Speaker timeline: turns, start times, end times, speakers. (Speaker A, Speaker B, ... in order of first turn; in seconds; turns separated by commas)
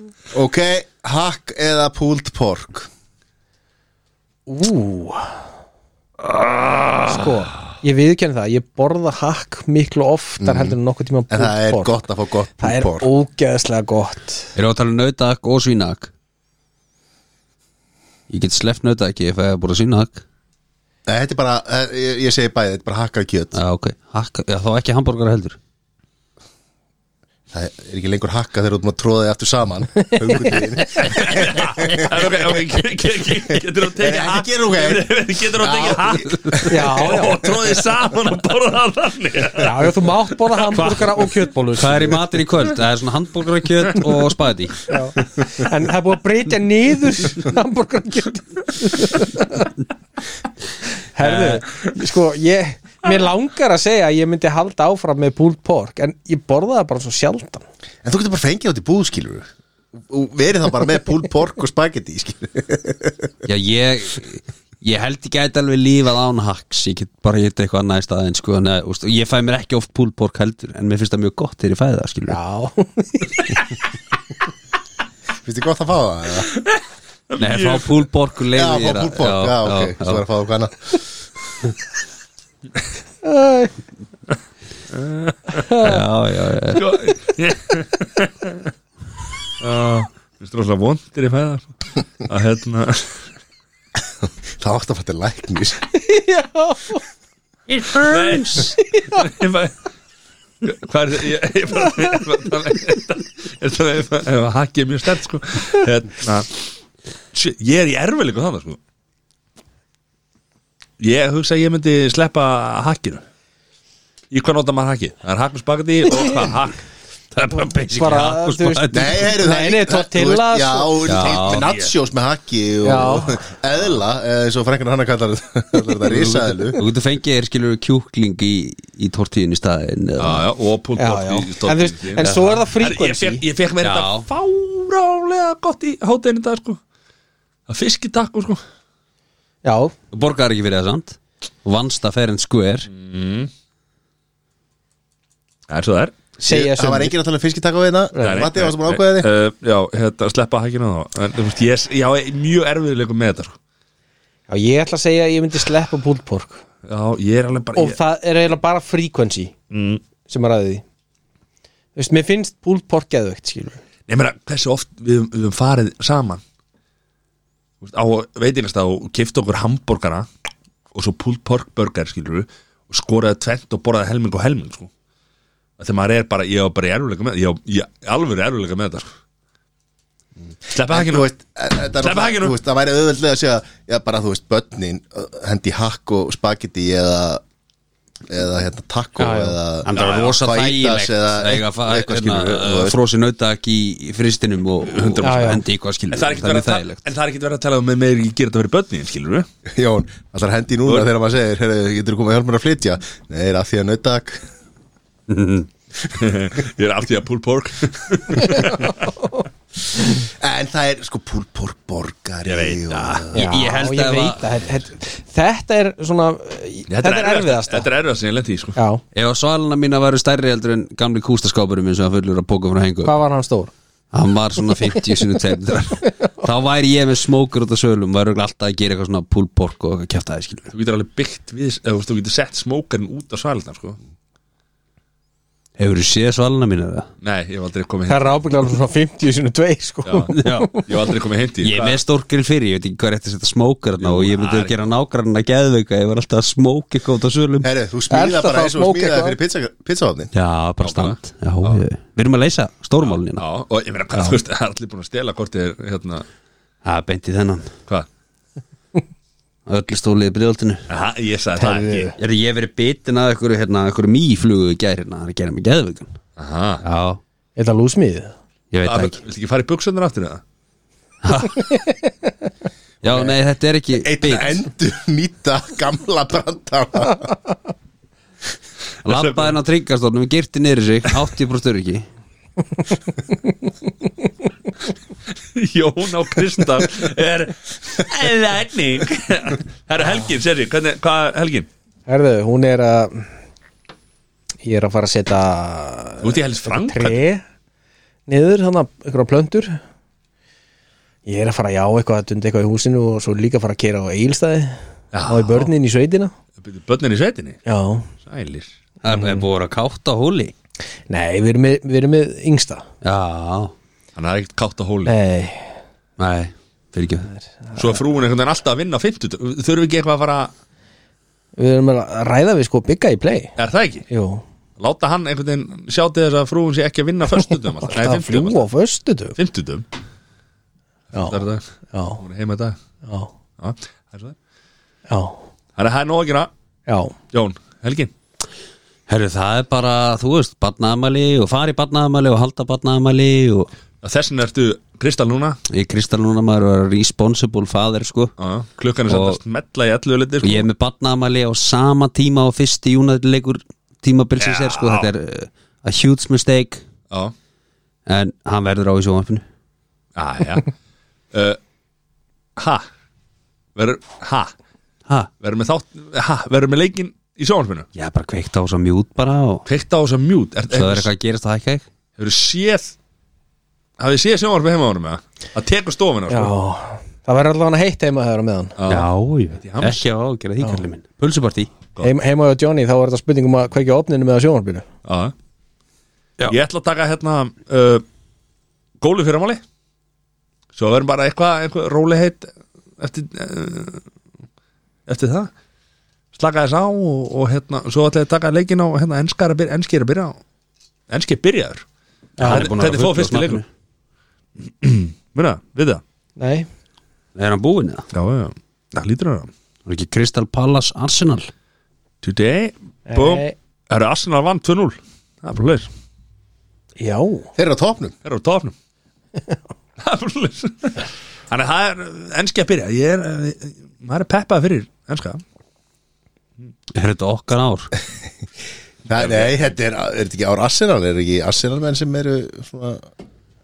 Speaker A: 0.3-2.9, Speaker B: 4.5-5.3, Speaker C: 6.2-7.0, Speaker B: 7.0-11.9, Speaker A: 10.4-10.8, Speaker A: 11.3-13.1, Speaker B: 12.6-14.5, Speaker D: 14.6-16.1, Speaker D: 18.3-20.2, Speaker A: 21.1-23.6, Speaker D: 23.5-25.6, Speaker A: 27.5-32.3, Speaker B: 30.0-30.8, Speaker C: 31.0-41.0, Speaker A: 34.0-37.0, Speaker B: 36.7-37.5, Speaker B: 39.5-42.2, Speaker D: 40.8-41.0, Speaker D: 41.8-44.9, Speaker B: 44.9-49.8, Speaker B: 51.1-57.6, Speaker A: 58.0-63.3, Speaker D: 63.5-72.4, Speaker B: 72.3-73.6, Speaker A: 75.4-76.5, Speaker C: 76.5-78.0, Speaker D: 77.4-80.3, Speaker A: 78.5-80.9, Speaker B: 83.2-83.8, Speaker C: 84.9-85.7, Speaker B: 85.7-86.0, Speaker D: 85.8-86.9, Speaker C: 86.8-88.7, Speaker C: 89.6-91.7, Speaker C: 92.2-93.2, Speaker A: 94.6-95.8, Speaker B: 95.9-97.0, Speaker D: 97.7-98.8, Speaker C: 97.9-99.7, Speaker B: 98.9-99.3, Speaker C: 100.6-106.7, Speaker C: 107.3-108.8, Speaker C: 111.0-113.2, Speaker C: 114.3-116.8, Speaker B: 116.2-116.5, Speaker C: 117.3-118.3, Speaker B: 117.6-121.1, Speaker D: 117.9-119.3, Speaker A: 118.9-126.8, Speaker D: 121.1-121.6, Speaker C: 121.3-121.9, Speaker B: 122.8-123.4, Speaker D: 126.1-130.4, Speaker C: 130.2-136.8, Speaker B: 131.0-133.4, Speaker D: 132.2-132.6, Speaker D: 133.8-134.3, Speaker C: 137.7-138.6, Speaker B: 139.6-139.9, Speaker D: 140.1-142.9, Speaker C: 142.9-143.5, Speaker C: 145.7-146.2, Speaker B: 146.4-147.2, Speaker A: 146.4-149.3, Speaker B: 148.1-148.5, Speaker C: 148.2-153.6, Speaker B: 154.5-156.6, Speaker C: 156.9-158.0, Speaker B: 157.8-159.5, Speaker C: 159.7-160.0, Speaker B: 160.3-160.8, Speaker B: 162.0-163.8, Speaker C: 164.1-166.4, Speaker C: 167.8-170.3, Speaker C: 170.9-174.9, Speaker C: 175.8-179.1, Speaker A: 180.5-187.4, Speaker C: 180.7-181.3, Speaker C: 182.0-182.6, Speaker A: 188.3-193.0, Speaker B: 189.2-189.6, Speaker D: 189.8-197.0, Speaker C: 189.9-190.4, Speaker C: 194.8-199.5, Speaker B: 195.2-195.6, Speaker A: 199.7-204.4, Speaker D: 205.3-205.7, Speaker C: 206.1-209.0, Speaker B: 209.1-209.4, Speaker A: 210.1-213.4, Speaker C: 212.5-213.3, Speaker D: 213.3-214.4, Speaker B: 213.3-217.9, Speaker C: 216.9-218.8, Speaker B: 218.8-219.0, Speaker D: 219.2-223.2, Speaker B: 223.1-223.7, Speaker D: 224.1-230.7, Speaker C: 230.7-234.0, Speaker D: 235.8-237.1, Speaker C: 237.2-238.4, Speaker B: 238.1-240.8, Speaker C: 240.1-242.0, Speaker D: 240.4-240.7, Speaker D: 241.6-247.7, Speaker C: 244.0-244.9, Speaker A: 247.6-250.3, Speaker B: 248.1-249.4, Speaker D: 250.3-253.4, Speaker C: 250.8-251.8, Speaker C: 253.1-256.3, Speaker D: 256.9-257.7, Speaker D: 259.7-260.9, Speaker C: 260.9-262.1, Speaker B: 261.6-262.2, Speaker D: 262.2-266.1, Speaker C: 266.4-266.8, Speaker D: 266.8-267.2, Speaker B: 267.6-268.3, Speaker D: 268.7-269.2, Speaker C: 268.9-270.4, Speaker D: 271.2-271.7, Speaker B: 271.5-272.1, Speaker D: 273.0-274.6, Speaker A: 274.0-277.3, Speaker D: 279.1-282.1, Speaker C: 279.1-279.5, Speaker C: 285.5-291.7, Speaker B: 292.1-293.3, Speaker B: 294.6-297.4, Speaker C: 296.2-297.2, Speaker B: 298.3-299.8, Speaker B: 301.3-306.3, Speaker C: 305.1-305.7, Speaker C: 306.6-307.6, Speaker B: 307.7-308.1, Speaker C: 308.2-308.7, Speaker D: 309.0-310.5, Speaker B: 309.1-309.5, Speaker B: 311.1-312.8, Speaker D: 313.0-313.7, Speaker C: 314.2-315.2, Speaker B: 315.1-315.8, Speaker D: 316.2-317.3, Speaker B: 317.3-318.0, Speaker C: 317.8-320.5, Speaker B: 321.6-323.5, Speaker C: 323.6-324.1, Speaker B: 324.1-324.4, Speaker C: 324.8-328.7, Speaker B: 327.9-329.4, Speaker C: 329.4-329.9, Speaker B: 331.1-331.4, Speaker C: 331.2-331.6, Speaker B: 331.9-332.2, Speaker C: 332.2-332.8, Speaker B: 333.1-333.3, Speaker C: 333.6-334.4, Speaker B: 335.1-335.4, Speaker C: 335.8-336.5, Speaker B: 336.9-337.1, Speaker C: 337.3-338.1, Speaker D: 339.1-343.7, Speaker C: 344.0-345.6, Speaker D: 345.7-348.3, Speaker C: 348.4-350.7, Speaker D: 349.1-349.4, Speaker D: 350.4-356.8, Speaker C: 354.4-355.1, Speaker D: 358.1-359.4, Speaker C: 360.2-360.7, Speaker C: 361.3-361.6, Speaker C: 362.6-362.9, Speaker C: 363.8-364.5, Speaker C: 365.4-367.9, Speaker D: 367.9-369.6, Speaker C: 369.7-371.1, Speaker D: 370.7-371.8, Speaker C: 372.2-372.9, Speaker C: 374.0-376.5, Speaker B: 376.3-378.8, Speaker C: 378.8-379.1, Speaker D: 378.9-381.7, Speaker C: 379.6-380.0, Speaker B: 382.0-384.9, Speaker C: 385.1-385.3, Speaker C: 386.5-388.0, Speaker C: 389.0-389.6, Speaker C: 390.8-394.0, Speaker C: 395.1-395.5, Speaker C: 396.4-400.4, Speaker C: 401.1-401.8, Speaker B: 402.4-402.7, Speaker C: 402.4-403.6, Speaker D: 402.4-403.6, Speaker C: 404.6-406.0, Speaker B: 406.4-406.7, Speaker D: 407.4-408.1, Speaker C: 408.1-409.5, Speaker D: 409.9-411.5, Speaker C: 412.2-415.9, Speaker B: 413.1-413.5, Speaker B: 417.0-417.5, Speaker A: 417.6-418.1, Speaker C: 418.2-418.7, Speaker C: 420.0-425.4, Speaker D: 426.9-427.9, Speaker A: 429.1-433.1, Speaker C: 429.1-429.6